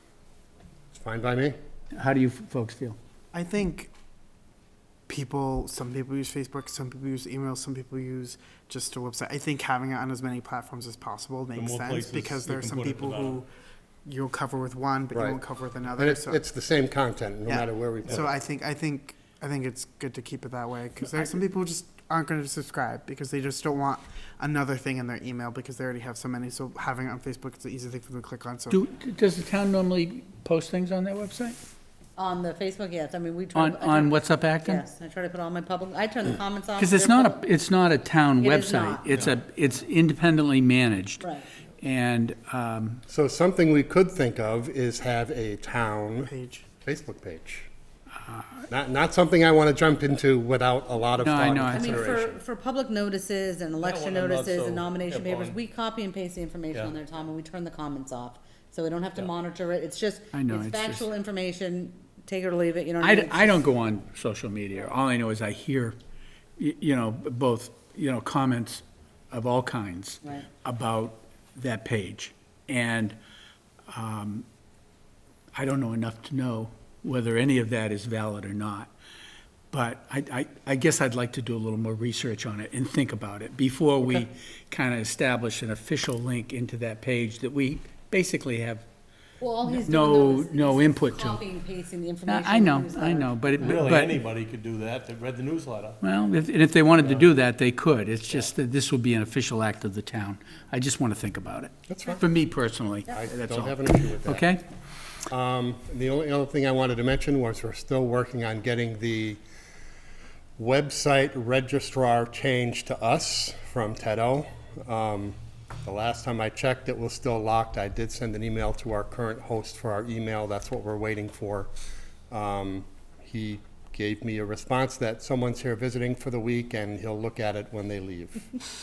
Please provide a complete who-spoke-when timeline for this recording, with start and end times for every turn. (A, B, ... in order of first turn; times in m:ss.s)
0:00.9-0:01.6 A
0:01.9-0:03.0 B
0:03.3-0:03.9 C
0:05.1-0:13.5 C
0:11.5-0:13.4 D
0:14.1-0:16.4 C
0:15.1-0:15.4 A
0:16.0-0:18.3 A
0:17.5-0:28.8 C
0:28.7-0:31.6 B
0:32.2-0:37.4 E
0:33.6-0:34.8 B
0:36.8-0:41.3 B
0:38.4-0:39.3 E
0:41.2-0:41.5 E
0:41.8-0:43.0 B
0:43.1-0:47.7 A
0:46.3-0:46.7 C
0:48.7-0:52.4 A
0:51.2-0:52.1 B
0:51.7-1:03.7 E
0:53.8-0:55.6 D
1:00.3-1:01.0 B
1:03.0-1:06.0 B
1:06.6-1:13.2 B
1:10.2-1:10.5 E
1:13.9-1:14.5 B
1:15.6-1:18.9 B
1:19.7-1:28.8 B
1:29.4-1:33.5 E
1:29.7-1:31.4 B
1:32.3-1:34.2 B
1:33.6-1:36.0 D
1:36.0-1:44.6 B
1:41.9-1:42.2 A
1:43.1-1:44.5 A
1:45.3-1:49.4 A
1:50.6-2:01.7 A
2:02.3-2:08.6 A